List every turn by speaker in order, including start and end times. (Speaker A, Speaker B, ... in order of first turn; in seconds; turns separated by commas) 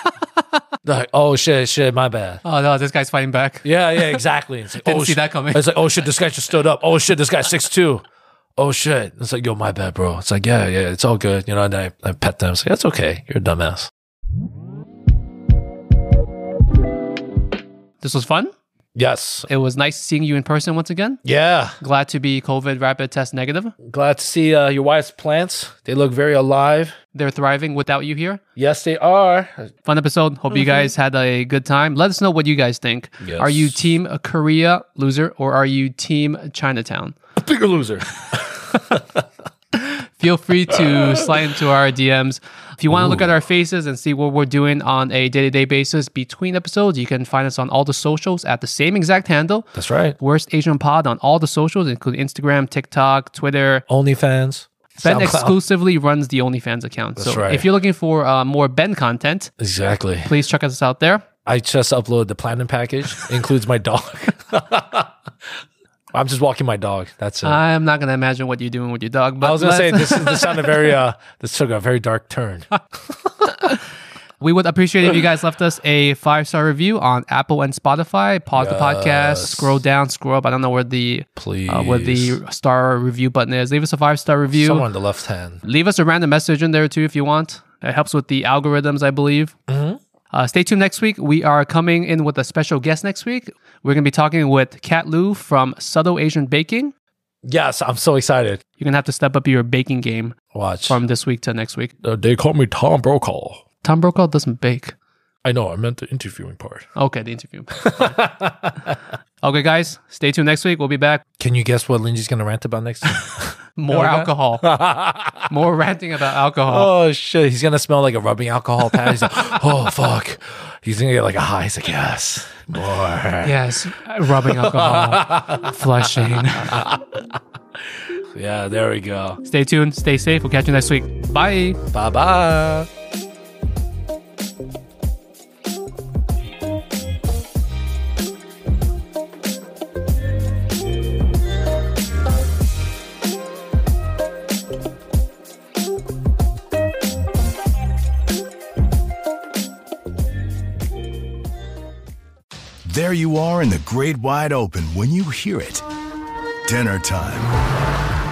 Speaker A: 0.8-2.4, Speaker B: 2.4-4.2, Speaker A: 3.6-8.0, Speaker B: 4.8-5.6, Speaker A: 8.6-13.9, Speaker B: 18.0-18.5, Speaker A: 18.9-19.5, Speaker B: 19.5-21.2, Speaker A: 21.2-21.8, Speaker B: 21.8-23.8, Speaker A: 23.8-27.0, Speaker B: 27.1-28.4, Speaker A: 28.6-29.7, Speaker B: 29.9-37.2, Speaker A: 33.2-33.8, Speaker A: 37.4-39.2, Speaker B: 39.8-53.9, Speaker A: 40.7-41.5, Speaker A: 42.9-43.3, Speaker A: 49.7-50.2, Speaker A: 53.9-55.6, Speaker B: 55.0-59.5, Speaker A: 57.2-57.7, Speaker A: 59.6-60.3, Speaker B: 60.2-61.2, Speaker A: 61.5-65.1, Speaker A: 66.1-67.6, Speaker B: 67.4-70.8, Speaker A: 69.4-72.7, Speaker B: 74.4-84.8, Speaker A: 78.5-79.8, Speaker A: 81.4-82.4, Speaker A: 84.5-85.6, Speaker B: 85.6-89.5, Speaker A: 89.7-90.0, Speaker B: 90.3-96.9, Speaker A: 97.4-98.6, Speaker B: 98.8-101.9, Speaker A: 100.5-101.0, Speaker A: 102.0-103.6, Speaker B: 103.8-104.9, Speaker A: 105.4-106.9, Speaker B: 107.0-108.2, Speaker A: 107.8-109.0, Speaker B: 109.4-111.2, Speaker A: 111.4-115.5, Speaker B: 113.8-114.6, Speaker B: 115.5-116.9, Speaker A: 116.7-123.6, Speaker B: 123.4-126.8, Speaker A: 124.4-127.4, Speaker A: 128.3-129.4, Speaker B: 129.4-131.8, Speaker A: 131.8-132.9, Speaker C: 152.8-155.9, Speaker C: 156.7-157.5